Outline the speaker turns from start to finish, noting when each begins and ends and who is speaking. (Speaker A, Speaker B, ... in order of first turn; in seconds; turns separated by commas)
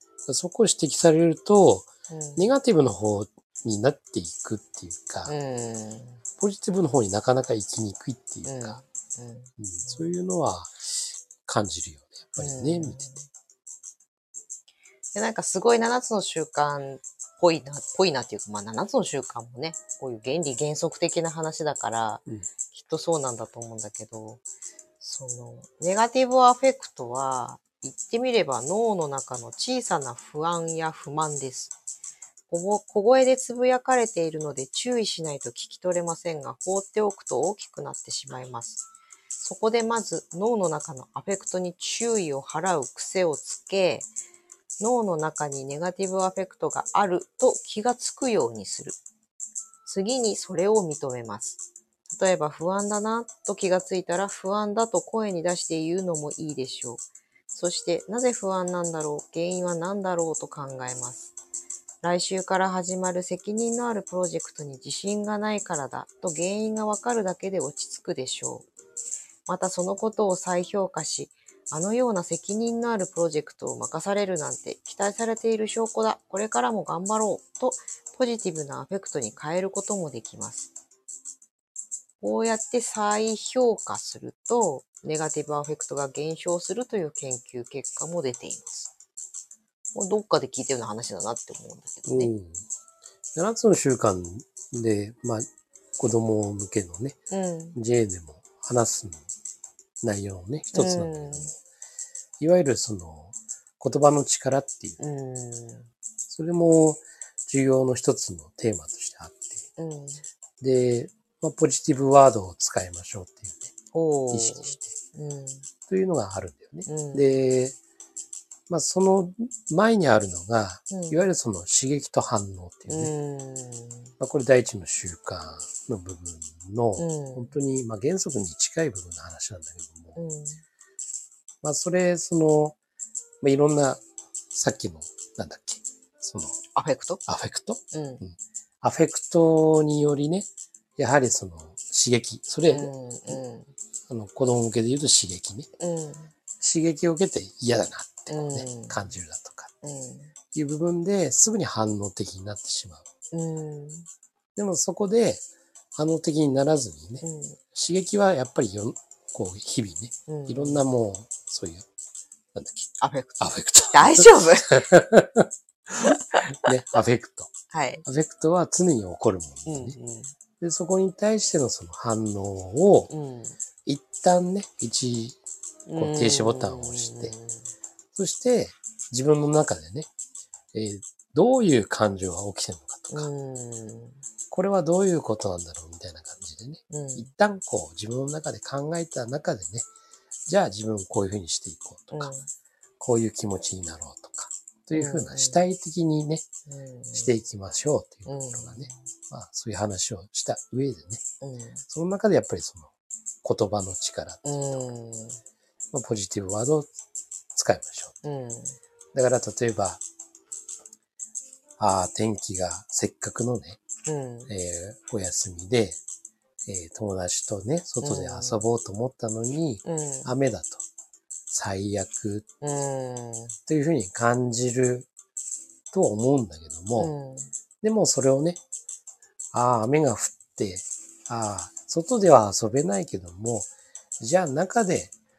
Speaker A: 0.2-5.3, Speaker B: 2.1-2.5, Speaker B: 5.3-6.2, Speaker A: 6.4-8.8, Speaker B: 8.4-10.0, Speaker A: 9.6-13.1, Speaker B: 12.4-13.3, Speaker B: 15.1-24.4, Speaker B: 25.0-31.8, Speaker B: 32.5-38.8, Speaker B: 39.4-44.1, Speaker B: 44.8-49.0, Speaker B: 49.8-61.3, Speaker B: 62.0-68.7, Speaker B: 69.5-80.7, Speaker B: 82.2-88.9, Speaker B: 89.9-92.3, Speaker A: 92.0-92.6, Speaker A: 93.3-95.5, Speaker A: 96.0-97.2, Speaker B: 97.3-97.8, Speaker A: 97.7-99.3, Speaker A: 100.0-101.5, Speaker B: 100.7-101.5, Speaker A: 102.4-105.0, Speaker B: 105.0-105.9, Speaker A: 106.3-109.6, Speaker B: 109.8-110.2, Speaker A: 110.6-113.7, Speaker B: 113.9-115.7, Speaker A: 114.3-114.9, Speaker A: 115.9-117.8, Speaker B: 116.9-117.3, Speaker A: 118.7-123.1, Speaker B: 120.9-121.2, Speaker B: 122.9-124.1, Speaker A: 124.2-130.2, Speaker B: 127.0-127.5, Speaker B: 130.2-130.6, Speaker A: 131.6-132.8, Speaker A: 133.4-136.6, Speaker B: 136.7-137.2, Speaker A: 137.3-143.4, Speaker B: 137.9-138.2, Speaker B: 142.7-143.7, Speaker A: 144.1-145.7, Speaker B: 145.8-146.3, Speaker A: 146.6-149.7, Speaker B: 148.3-149.0, Speaker B: 149.8-150.3, Speaker A: 150.5-153.1, Speaker B: 153.3-154.1, Speaker A: 154.6-155.4, Speaker A: 155.9-161.8, Speaker B: 157.2-157.6, Speaker B: 160.3-160.8, Speaker A: 162.5-162.9, Speaker B: 163.0-164.9, Speaker A: 163.4-167.5, Speaker B: 166.0-166.7, Speaker B: 167.7-168.0, Speaker A: 168.0-169.9, Speaker B: 169.7-170.3, Speaker A: 170.6-173.1, Speaker B: 173.1-173.6, Speaker A: 173.8-175.4, Speaker B: 175.9-177.6, Speaker A: 175.9-177.3, Speaker A: 178.1-180.1, Speaker A: 180.7-183.3, Speaker B: 183.1-184.2, Speaker A: 184.5-189.9, Speaker B: 186.9-187.3, Speaker A: 190.5-192.3, Speaker B: 192.1-192.5, Speaker A: 193.0-196.4, Speaker B: 194.9-195.6, Speaker B: 196.7-197.3, Speaker A: 197.1-201.2, Speaker B: 198.2-199.0, Speaker B: 201.4-201.8, Speaker A: 201.9-204.9, Speaker B: 204.4-205.4, Speaker A: 205.9-206.9, Speaker A: 207.5-208.2, Speaker B: 208.2-208.8, Speaker A: 209.1-210.0, Speaker A: 211.8-213.8, Speaker B: 214.1-214.5, Speaker A: 214.5-216.0, Speaker A: 216.7-220.8, Speaker B: 218.0-218.7, Speaker B: 219.8-220.3, Speaker A: 221.5-222.4, Speaker B: 222.6-223.5, Speaker A: 223.7-225.1, Speaker A: 225.9-227.1, Speaker B: 227.0-227.5, Speaker A: 227.8-228.6, Speaker A: 229.5-235.1